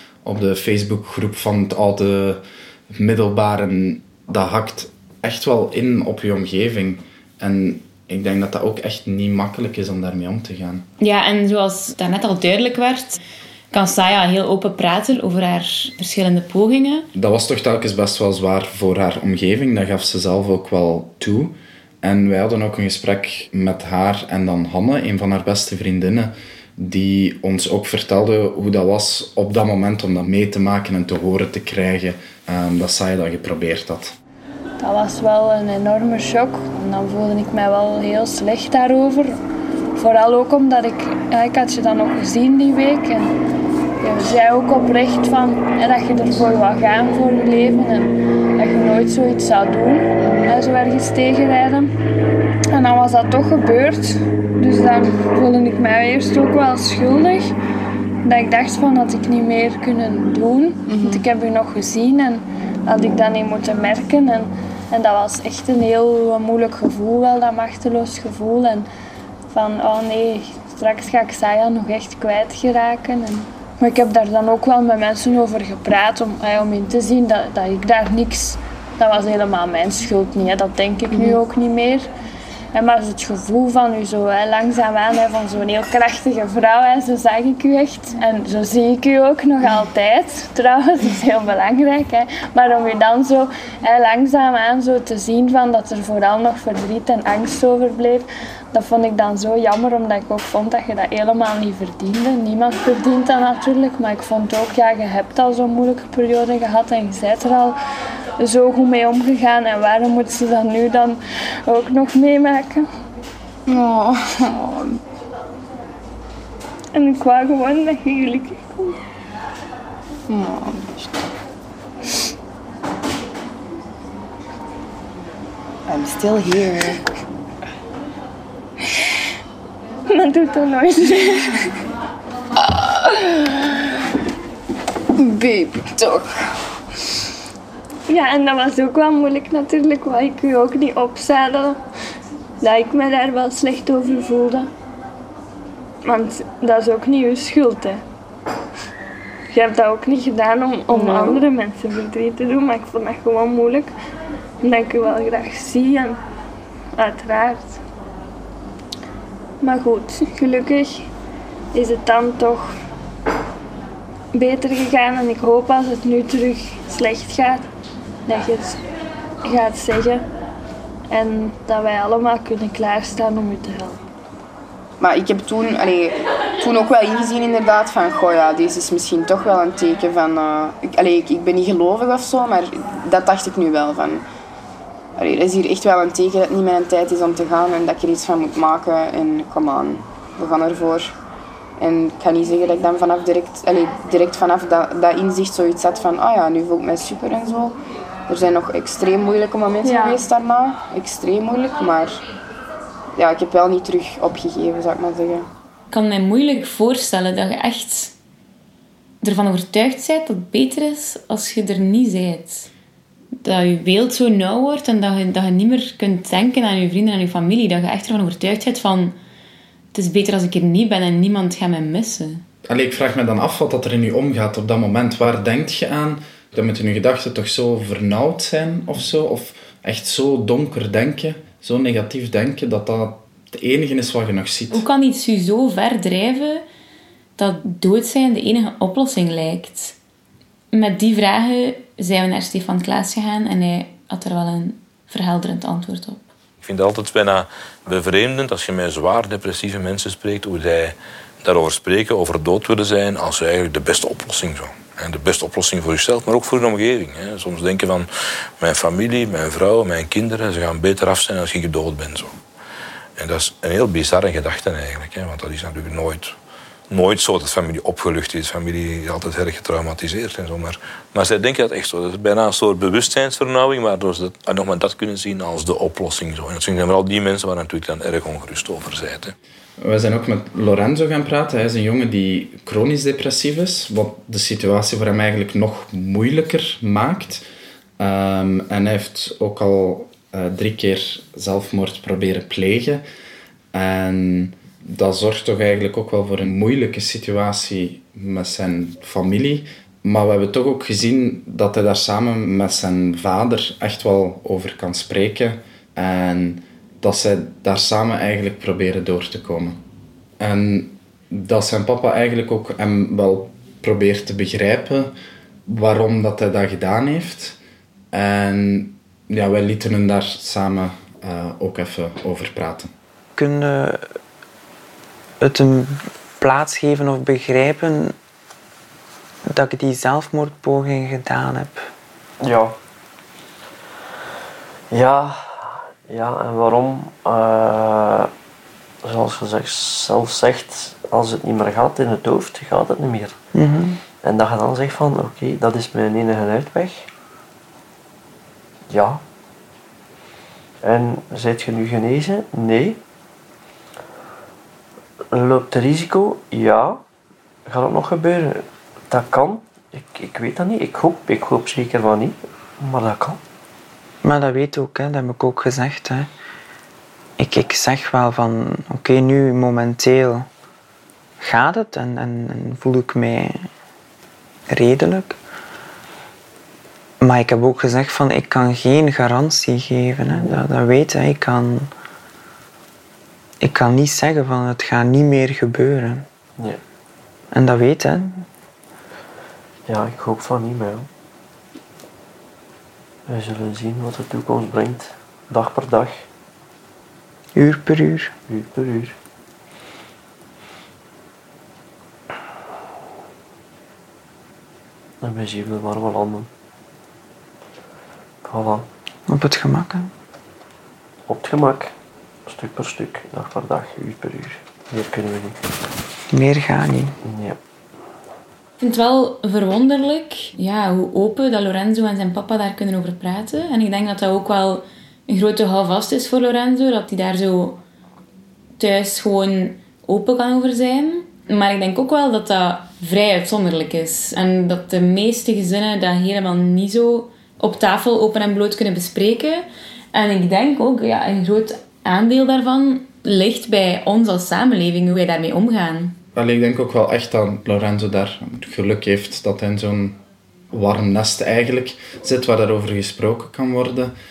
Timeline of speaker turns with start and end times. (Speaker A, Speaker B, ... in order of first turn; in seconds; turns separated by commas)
Speaker A: 0.2-10.9, Speaker B: 11.0-13.2, Speaker B: 13.7-17.1, Speaker A: 17.1-34.1, Speaker C: 34.8-39.3, Speaker C: 40.0-43.3, Speaker C: 44.0-51.9, Speaker C: 52.7-57.5, Speaker C: 58.2-68.9, Speaker D: 60.9-61.2, Speaker C: 69.5-82.1, Speaker C: 82.7-107.8, Speaker C: 108.4-112.9, Speaker D: 113.7-115.0, Speaker C: 116.9-119.0, Speaker D: 120.3-121.1, Speaker D: 125.9-127.0, Speaker C: 130.1-131.7, Speaker D: 132.7-133.4, Speaker D: 135.2-136.2, Speaker C: 138.1-141.8, Speaker C: 142.6-144.7, Speaker C: 146.0-148.0, Speaker C: 149.5-153.9, Speaker D: 150.9-151.4, Speaker C: 154.6-156.2, Speaker C: 156.9-157.8, Speaker C: 159.6-161.1, Speaker C: 161.7-162.7, Speaker C: 164.3-167.7, Speaker C: 168.2-168.8, Speaker C: 169.4-170.2, Speaker C: 171.1-174.0, Speaker D: 175.0-184.2, Speaker D: 185.2-191.2, Speaker D: 191.8-197.8, Speaker D: 198.3-202.2, Speaker C: 199.8-200.2, Speaker D: 203.2-205.5, Speaker B: 205.9-208.1, Speaker B: 209.2-212.7, Speaker B: 213.4-219.2, Speaker B: 219.9-222.4, Speaker A: 222.7-234.8, Speaker B: 234.7-236.6, Speaker B: 237.4-240.0, Speaker B: 240.7-246.2, Speaker E: 246.6-258.1, Speaker E: 258.6-262.3, Speaker E: 263.2-266.3, Speaker E: 266.9-279.3, Speaker A: 279.8-287.4, Speaker A: 288.0-293.0, Speaker A: 293.7-309.8, Speaker A: 310.4-315.1, Speaker A: 315.7-317.6, Speaker A: 318.1-322.9, Speaker F: 323.4-324.1, Speaker F: 325.4-328.1, Speaker F: 329.5-331.9, Speaker G: 332.4-332.7, Speaker G: 334.9-338.3, Speaker G: 339.0-343.3, Speaker F: 343.5-344.0, Speaker G: 344.2-347.1, Speaker G: 348.9-349.2, Speaker G: 350.8-353.0, Speaker G: 355.3-357.0, Speaker G: 357.7-363.4, Speaker F: 364.2-366.3, Speaker F: 367.4-370.5, Speaker F: 371.4-373.7, Speaker F: 374.7-375.4, Speaker F: 377.2-381.9, Speaker G: 380.3-380.6, Speaker F: 383.6-386.2, Speaker F: 387.5-388.5, Speaker G: 389.9-391.1, Speaker G: 393.3-396.2, Speaker F: 397.5-398.3, Speaker G: 398.5-399.1, Speaker G: 405.2-406.5, Speaker G: 408.4-408.9, Speaker F: 409.3-410.1, Speaker G: 411.3-411.9, Speaker G: 412.5-415.6, Speaker F: 416.3-417.1, Speaker G: 417.2-417.6, Speaker B: 418.8-427.8, Speaker B: 428.8-446.1, Speaker A: 446.3-450.2, Speaker A: 450.7-454.1